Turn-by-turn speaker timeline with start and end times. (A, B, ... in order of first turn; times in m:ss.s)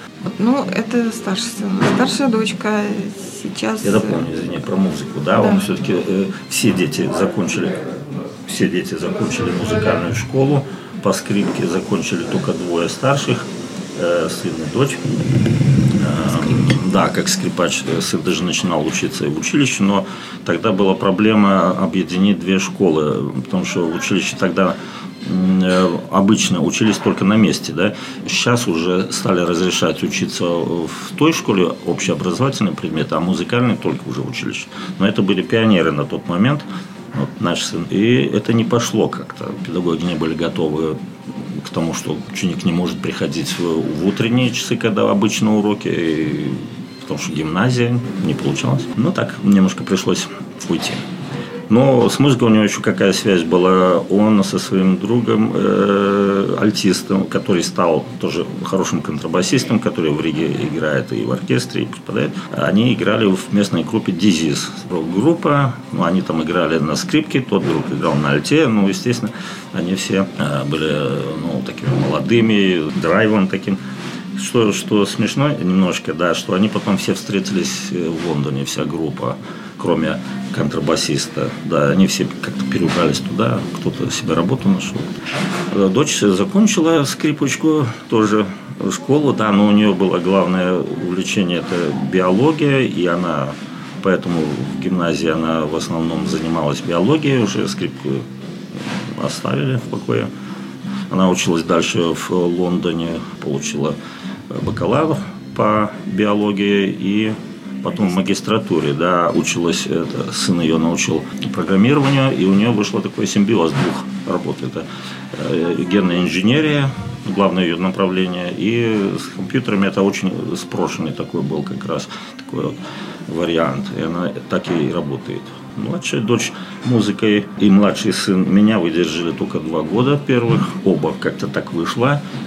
0:00.2-0:04.3 A
0:03.8-0:07.9 B
0:05.4-0:05.6 A
0:08.5-0:15.2 B
0:16.0-0:51.0 B
0:16.3-0:16.8 A
0:51.7-1:13.8 B
1:14.4-1:25.1 B
1:25.7-1:38.2 B
1:38.8-1:40.3 B
1:41.1-1:44.0 B
1:44.5-2:12.2 B